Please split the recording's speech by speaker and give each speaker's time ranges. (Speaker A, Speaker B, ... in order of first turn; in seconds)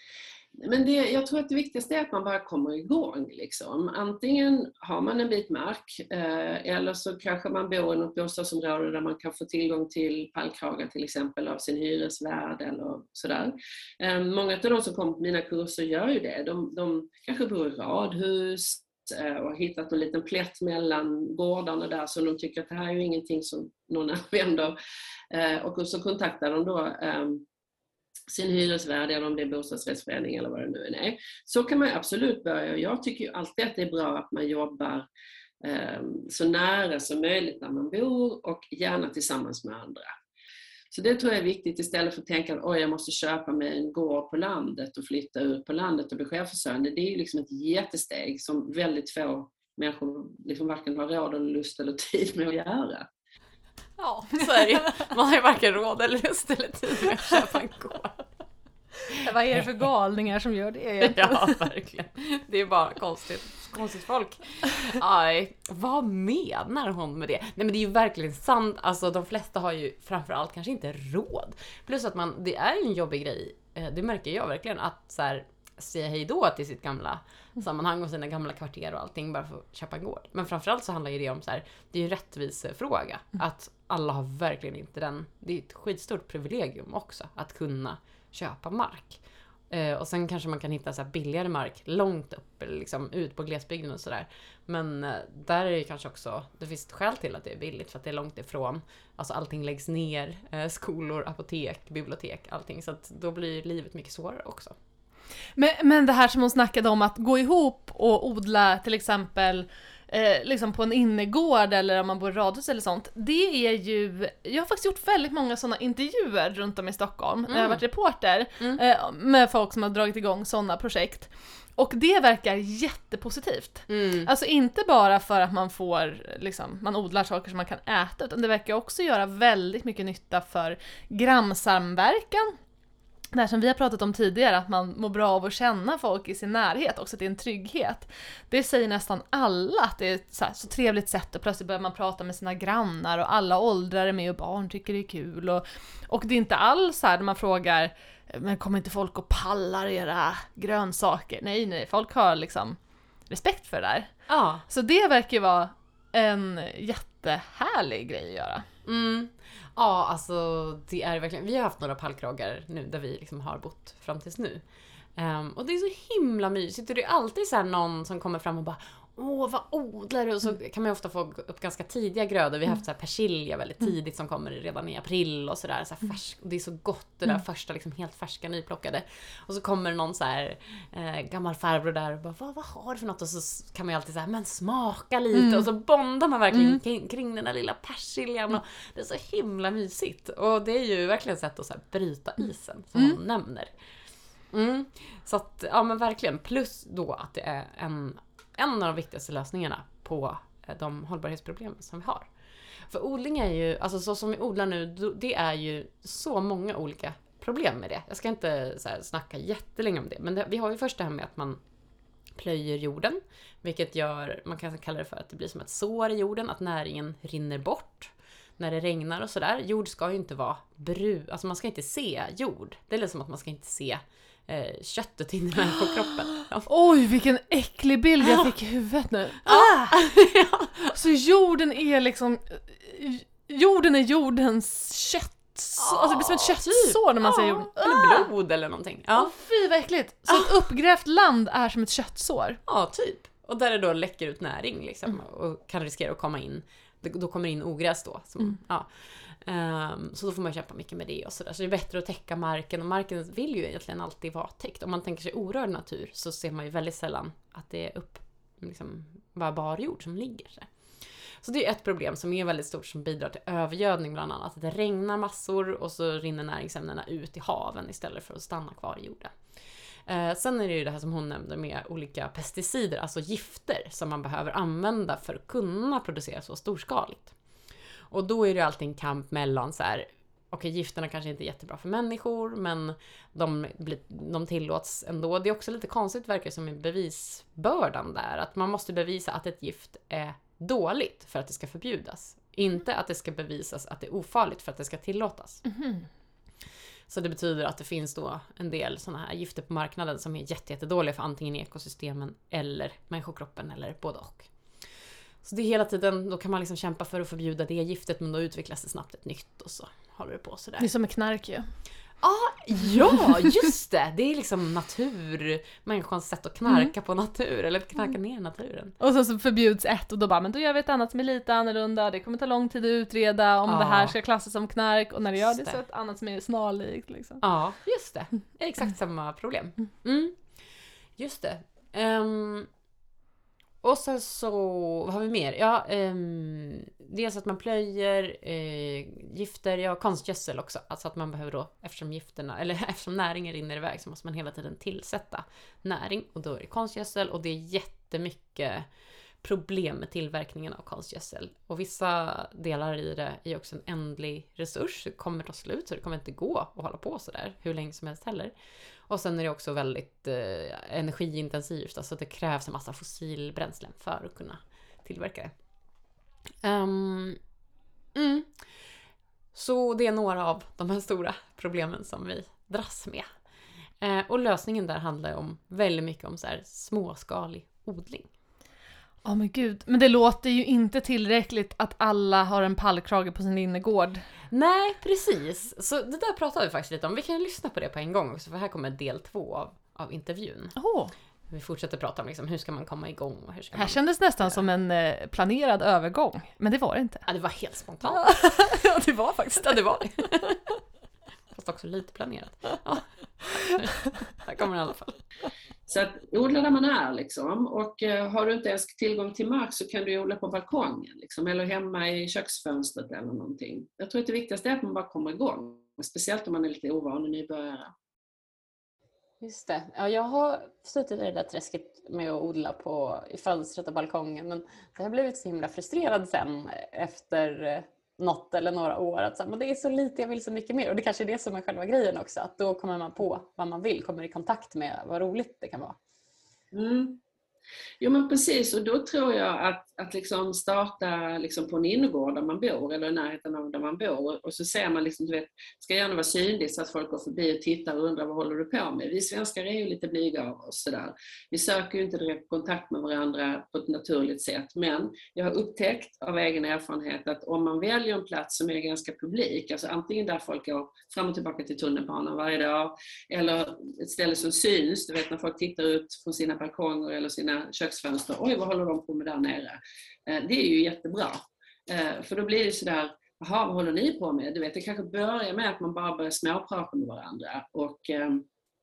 Speaker A: 0.6-24.8, 25.3-27.4, 28.3-35.1, 35.6-40.1, 40.9-53.1, 405.9-417.9, 436.7-437.2, 438.0-478.4
Speaker B: 54.0-58.3, 61.0-104.8, 117.5-117.8, 123.9-124.3, 154.3-154.6, 158.8-164.6, 165.2-193.7, 194.5-202.3, 202.9-211.6, 212.3-226.7, 229.4-230.9, 235.8-239.3, 242.7-260.7, 261.4-269.3, 270.1-277.4, 278.1-295.6, 297.1-304.5, 305.4-310.9, 312.2-318.9, 323.7-324.1, 327.4-330.4, 331.2-332.7, 333.8-348.9, 349.4-358.5, 359.1-365.5, 366.6-367.4, 368.1-368.6, 369.5-373.2, 374.0-378.3, 384.5-390.7, 391.5-394.5, 397.2-398.4, 399.6-400.6, 401.5-405.2, 419.4-436.0
Speaker C: 59.1-61.6, 105.5-132.6, 133.3-152.8, 153.3-154.1, 154.7-158.6, 185.3-185.7, 226.7-230.0, 230.9-238.3, 239.1-242.6, 310.8-311.7, 319.0-327.4, 379.2-384.2, 390.8-391.1, 393.7-397.2, 398.1-399.8